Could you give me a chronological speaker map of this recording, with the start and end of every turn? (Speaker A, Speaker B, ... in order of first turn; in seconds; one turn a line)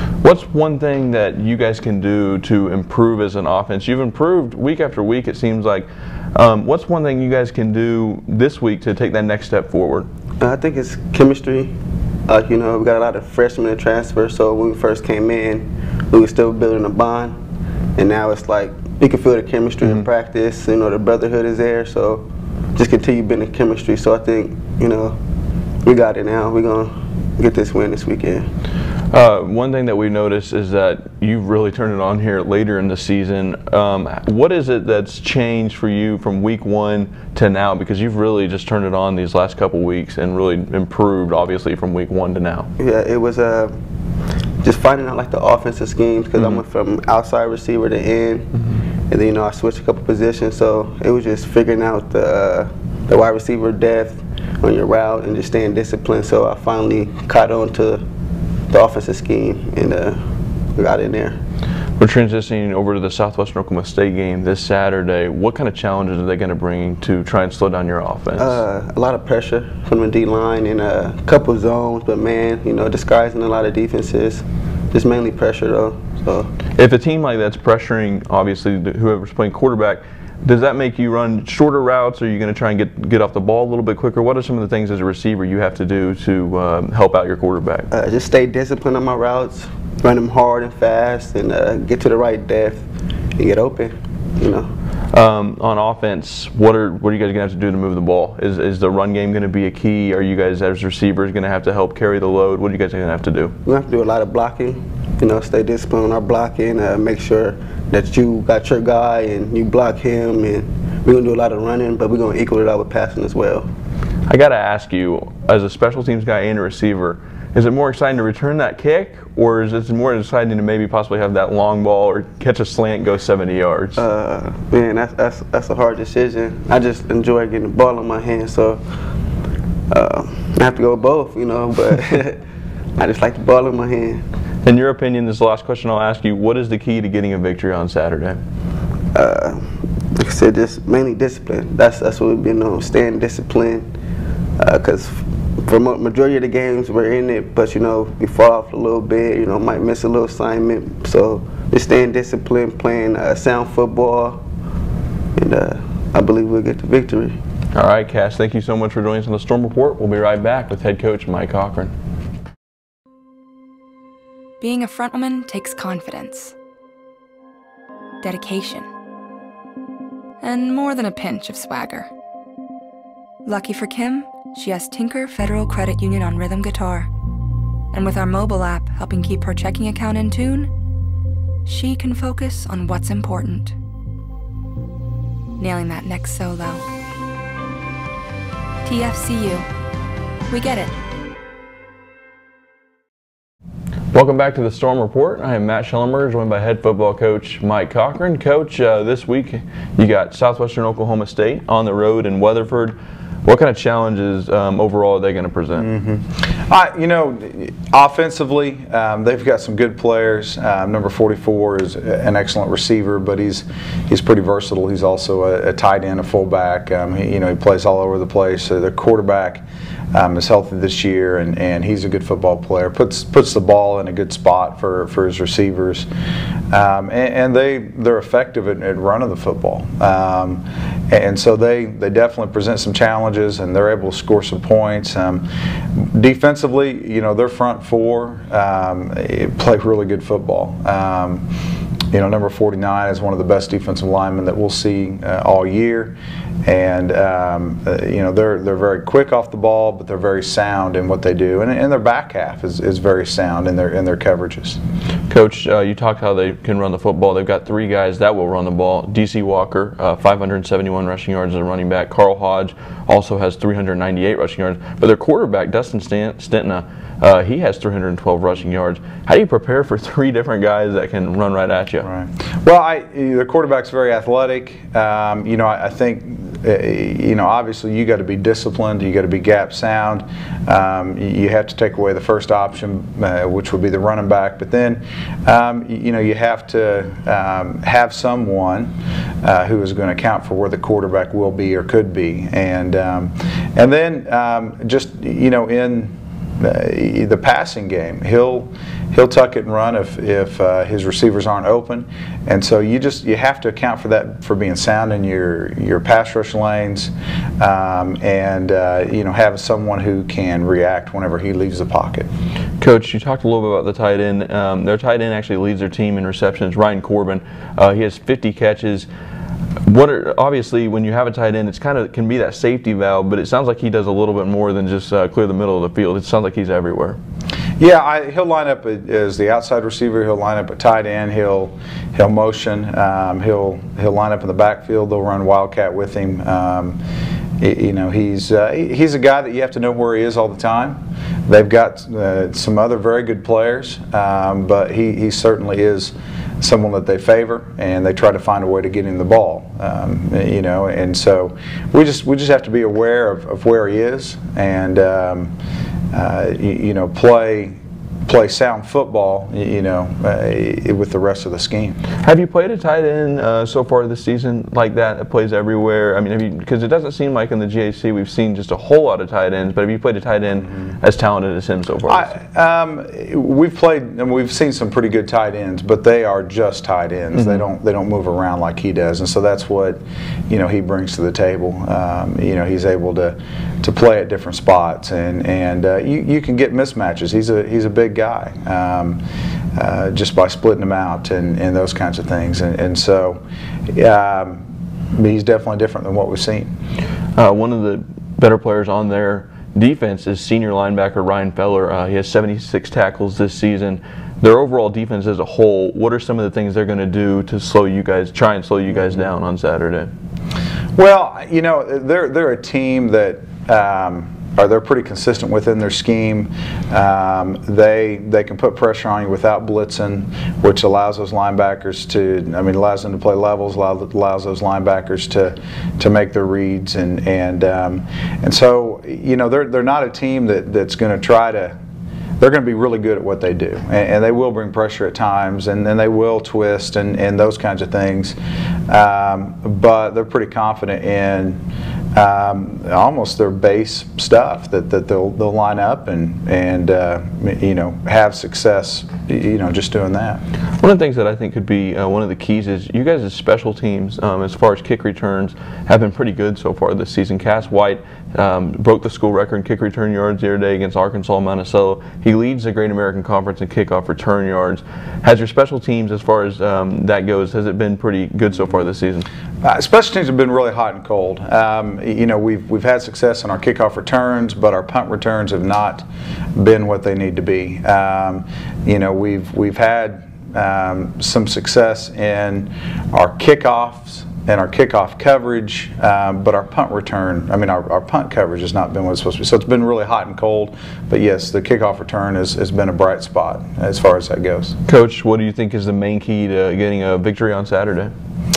Speaker A: 0.2-10.1
Speaker B: 10.4-11.7
Speaker B: 12.3-17.4
Speaker B: 18.0-25.2
Speaker B: 25.8-28.5
Speaker A: 29.1-42.7
Speaker B: 42.8-43.7
Speaker B: 44.6-48.5
Speaker B: 49.1-58.0
Speaker B: 58.7-61.4
Speaker A: 62.0-68.6
Speaker B: 68.4-76.5
Speaker A: 76.8-87.9
Speaker B: 87.9-94.7
Speaker A: 95.1-103.5
Speaker B: 103.7-113.7
Speaker A: 114.3-124.0
Speaker B: 124.0-128.8
Speaker B: 129.9-132.4
Speaker B: 133.0-134.2
Speaker A: 134.7-138.4
Speaker B: 139.1-143.9
Speaker B: 144.6-154.4
Speaker B: 155.4-157.4
Speaker A: 157.7-161.9
Speaker C: 164.6-166.6
Speaker C: 168.2-168.9
Speaker C: 170.4-172.1
Speaker C: 173.4-177.1
Speaker C: 177.9-180.7
Speaker C: 181.7-183.8
Speaker C: 185.6-186.8
Speaker C: 188.8-189.7
Speaker C: 190.5-191.0
Speaker A: 194.1-205.9
Speaker D: 205.8-226.1
Speaker D: 226.7-241.5
Speaker D: 242.1-254.8
Speaker A: 255.3-272.1
Speaker D: 272.0-288.9
Speaker D: 289.4-312.3
Speaker A: 312.8-319.1
Speaker A: 319.9-327.2
Speaker D: 327.8-337.0
Speaker D: 337.6-355.5
Speaker D: 356.1-362.0
Speaker A: 362.2-372.4
Speaker D: 372.1-389.2
Speaker D: 389.8-394.6
Speaker D: 395.1-396.7
Speaker A: 397.4-410.1
Speaker D: 410.9-431.8
Speaker D: 432.4-438.4
Speaker D: 438.9-441.6
Speaker D: 442.1-450.4
Speaker A: 450.8-469.3
Speaker D: 469.6-494.8
Speaker A: 494.9-498.1